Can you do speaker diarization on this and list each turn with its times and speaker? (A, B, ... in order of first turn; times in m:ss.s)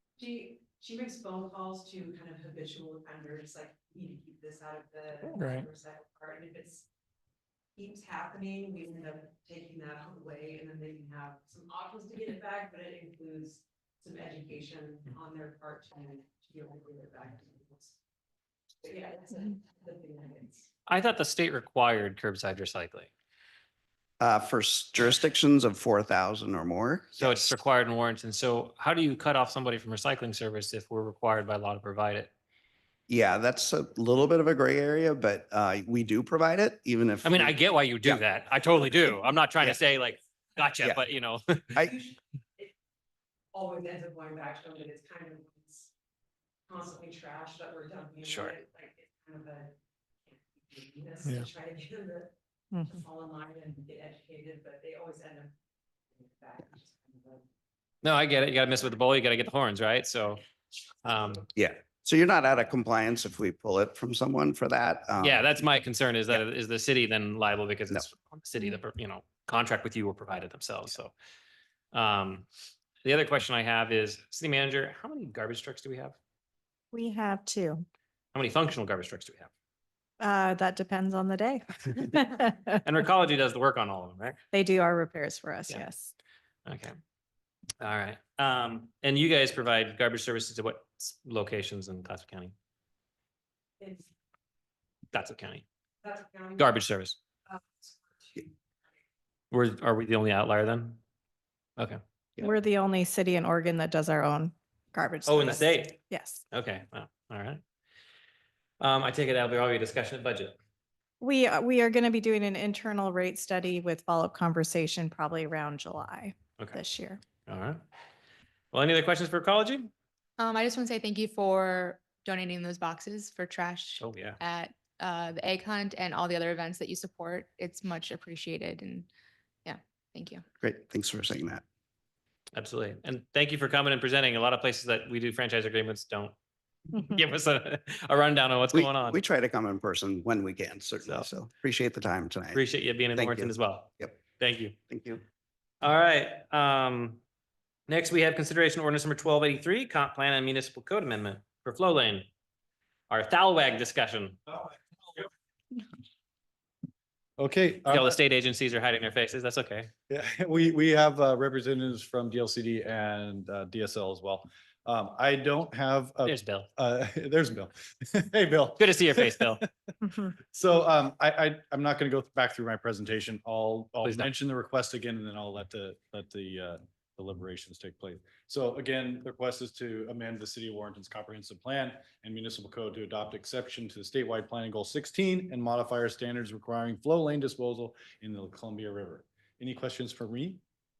0:00.2-0:06.9 A
0:07.8-0:18.0 A
0:18.8-0:20.7 A
0:20.9-0:23.1 B
0:24.2-0:27.5 C
0:27.2-0:32.3 B
0:33.1-0:38.2 C
0:37.2-0:41.9 B
0:41.9-0:42.7 A
0:43.5-0:45.9 A
0:46.7-0:49.8 A
0:48.2-0:48.6 B
0:50.3-0:52.3 A
0:52.7-0:53.0 D
0:52.8-0:55.5 A
0:56.1-0:57.4 A
0:58.0-1:00.4 B
1:01.0-1:01.5 B
1:01.6-1:05.6 C
1:05.2-1:11.1 B
1:11.9-1:12.5 B
1:13.0-1:16.2 B
1:16.9-1:17.8 D
1:18.3-1:19.5 B
1:20.2-1:22.8 D
1:22.8-1:24.4 B
1:24.5-1:26.1 D
1:26.7-1:26.9 B
1:27.8-1:32.5 B
1:33.8-1:34.1 A
1:35.1-1:35.6 B
1:36.0-1:36.8 A
1:36.6-1:37.2 B
1:37.5-1:38.5 A
1:39.5-1:41.0 B
1:42.4-1:46.4 D
1:45.2-1:47.6 B
1:48.8-1:50.6 B
1:51.2-1:57.2 D
1:57.5-1:57.8 B
1:58.7-1:59.9 B
2:00.4-2:09.1 E
2:04.0-2:04.4 B
2:09.6-2:10.4 E
2:10.6-2:11.6 C
2:12.6-2:16.3 B
2:17.0-2:19.2 B
2:18.7-2:22.6 C
2:22.5-2:24.7 B
2:23.2-2:24.2 C
2:24.9-2:25.2 C
2:25.8-2:27.2 B
2:27.9-2:32.3 B
2:33.1-2:34.4 B
2:37.4-2:38.2 F
2:37.9-2:39.9 B
2:40.1-2:49.7 F
2:46.2-2:46.7 B
2:48.8-2:49.6 B
2:50.5-3:10.6 F
2:54.0-2:54.3 B